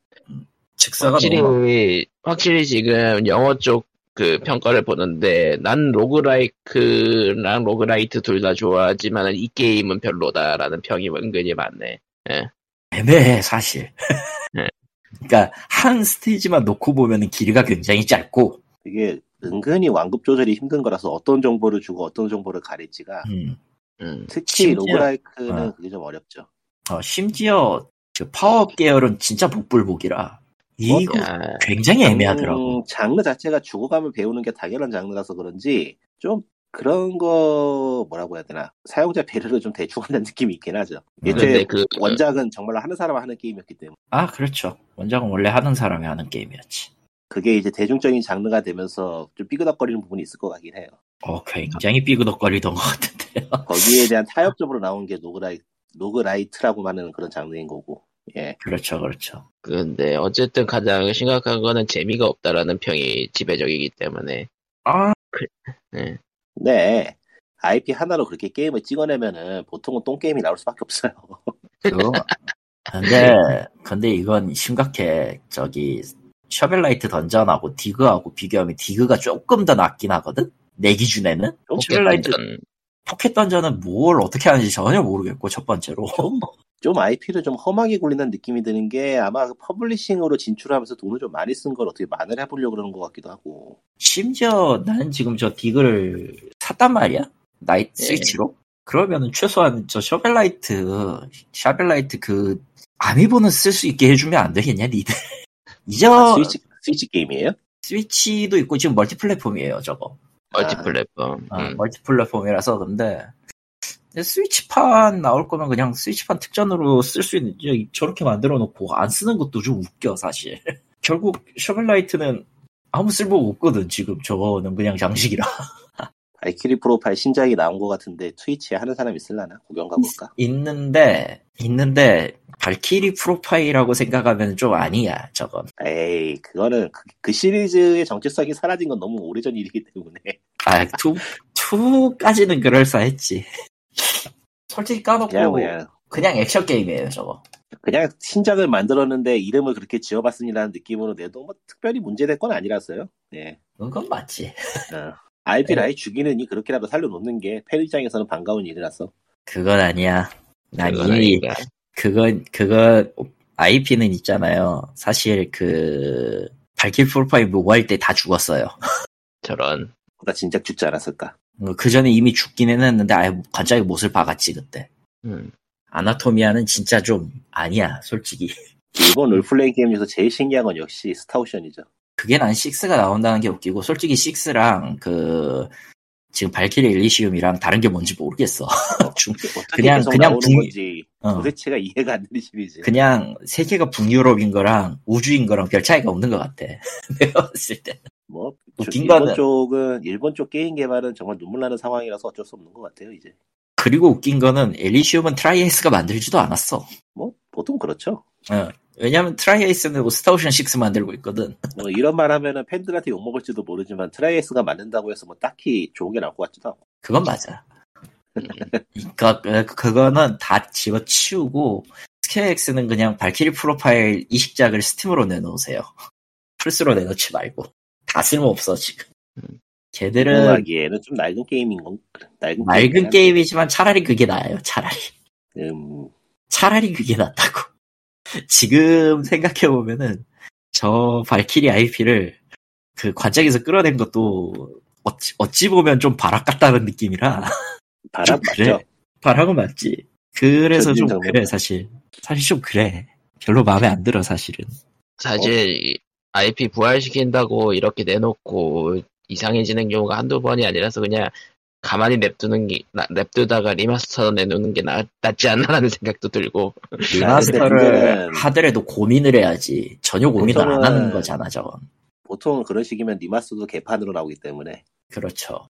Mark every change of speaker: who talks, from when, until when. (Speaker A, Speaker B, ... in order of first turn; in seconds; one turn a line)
Speaker A: 0.3-1.6
Speaker B: 1.0-12.5
Speaker A: 12.9-13.9
Speaker A: 15.2-18.6
Speaker C: 18.9-23.3
Speaker A: 23.3-23.6
Speaker B: 24.0-24.3
Speaker C: 24.3-26.5
Speaker A: 24.5-25.7
Speaker A: 26.9-32.8
Speaker C: 30.9-31.2
Speaker B: 31.1-31.7
Speaker C: 32.0-44.0
Speaker A: 41.2-41.6
Speaker B: 41.3-42.2
Speaker A: 44.1-46.9
Speaker C: 47.3-51.0
Speaker A: 51.2-54.0
Speaker C: 53.7-58.6
Speaker A: 58.6-59.5
Speaker B: 59.6-64.5
Speaker A: 64.9-65.2
Speaker B: 65.3-66.2
Speaker C: 66.6-71.6
Speaker B: 71.9-72.4
Speaker A: 71.9-72.3
Speaker A: 72.9-82.4
Speaker B: 73.1-73.4
Speaker B: 81.8-82.6
Speaker A: 83.1-86.3
Speaker C: 86.2-93.8
Speaker A: 94.0-105.1
Speaker B: 98.0-98.4
Speaker A: 105.9-106.6
Speaker C: 106.1-107.6
Speaker A: 107.8-110.2
Speaker C: 110.5-110.9
Speaker B: 110.5-111.8
Speaker A: 111.5-113.3
Speaker A: 114.1-125.5
Speaker C: 126.4-130.3
Speaker A: 130.0-135.7
Speaker C: 135.8-140.4
Speaker A: 140.6-147.4
Speaker C: 145.3-145.9
Speaker C: 147.8-153.6
Speaker A: 153.8-154.6
Speaker C: 154.9-159.1
Speaker A: 159.5-168.7
Speaker B: 160.8-161.7
Speaker B: 169.4-169.9
Speaker C: 170.2-171.3
Speaker A: 171.6-174.9
Speaker B: 175.2-175.5
Speaker A: 175.9-178.5
Speaker C: 178.9-181.9
Speaker A: 182.2-185.7
Speaker A: 186.3-191.5
Speaker C: 189.0-192.9
Speaker A: 192.8-198.0
Speaker C: 198.3-203.4
Speaker A: 198.8-199.4
Speaker A: 203.8-206.9
Speaker C: 207.2-208.2
Speaker A: 208.5-211.6
Speaker C: 211.8-216.8
Speaker A: 217.0-217.7
Speaker C: 218.4-218.8
Speaker A: 218.9-225.9
Speaker A: 226.6-229.1
Speaker A: 229.9-230.7
Speaker C: 230.2-233.4
Speaker A: 232.6-235.1
Speaker C: 235.6-236.1
Speaker A: 236.5-237.7
Speaker A: 238.3-242.4
Speaker A: 243.0-247.5
Speaker C: 248.1-248.8
Speaker A: 248.2-254.7
Speaker C: 250.7-251.5
Speaker B: 255.2-267.7
Speaker A: 267.1-271.9
Speaker C: 267.1-268.5
Speaker C: 270.4-271.4
Speaker C: 272.3-274.9
Speaker A: 275.1-275.7